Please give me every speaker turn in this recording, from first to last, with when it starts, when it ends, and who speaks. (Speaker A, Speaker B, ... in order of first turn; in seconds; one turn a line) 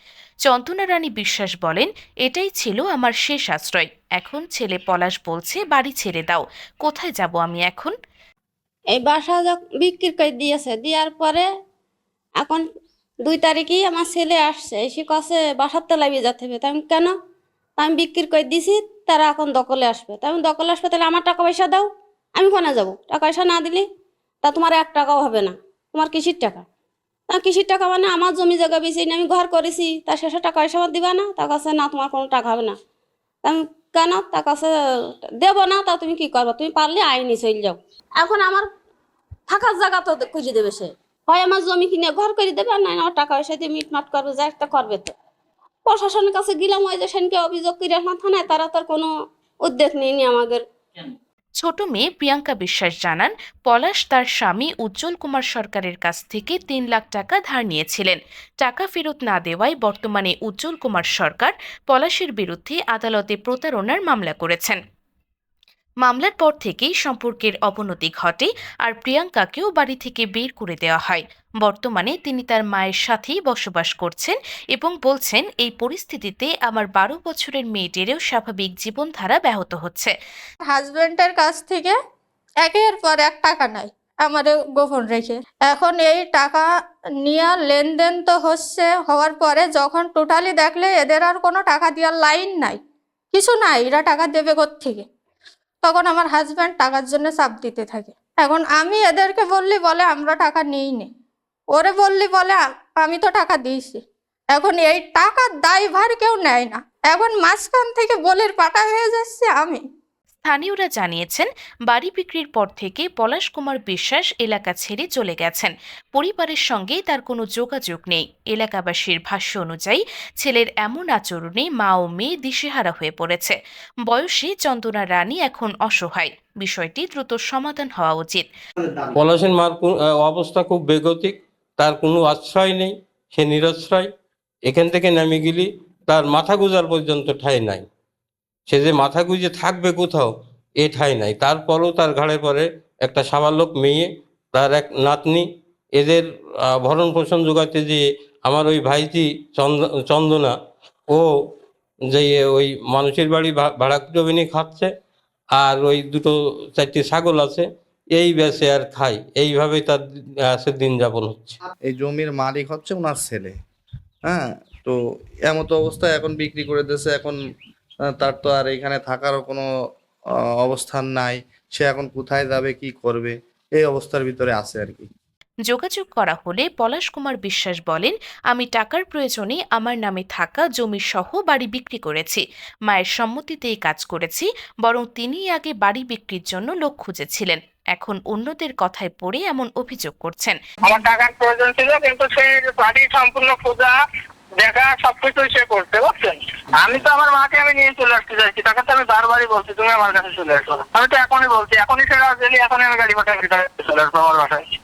Speaker A: 0.5-7.9
Speaker B: 8.9-11.5
Speaker B: 12.4-12.6
Speaker B: 13.2-17.1
Speaker B: 17.8-23.9
Speaker B: 24.4-26.6
Speaker B: 27.3-32.8
Speaker B: 33.4-34.7
Speaker B: 35.4-38.7
Speaker B: 39.5-45.1
Speaker B: 45.9-49.1
Speaker B: 49.6-50.6
Speaker A: 51.6-64.8
Speaker A: 66.0-80.1
Speaker C: 80.7-82.0
Speaker C: 82.6-86.7
Speaker C: 87.2-92.8
Speaker C: 93.3-95.0
Speaker C: 95.8-101.1
Speaker C: 101.7-104.0
Speaker C: 104.5-109.8
Speaker A: 110.4-128.5
Speaker D: 129.2-134.1
Speaker D: 134.7-137.9
Speaker D: 138.7-150.5
Speaker D: 152.1-154.9
Speaker D: 155.6-160.0
Speaker D: 160.5-161.6
Speaker E: 161.9-163.5
Speaker E: 164.3-167.4
Speaker E: 168.2-169.7
Speaker E: 170.6-175.1
Speaker A: 175.7-190.6
Speaker F: 190.8-193.9
Speaker F: 194.6-204.7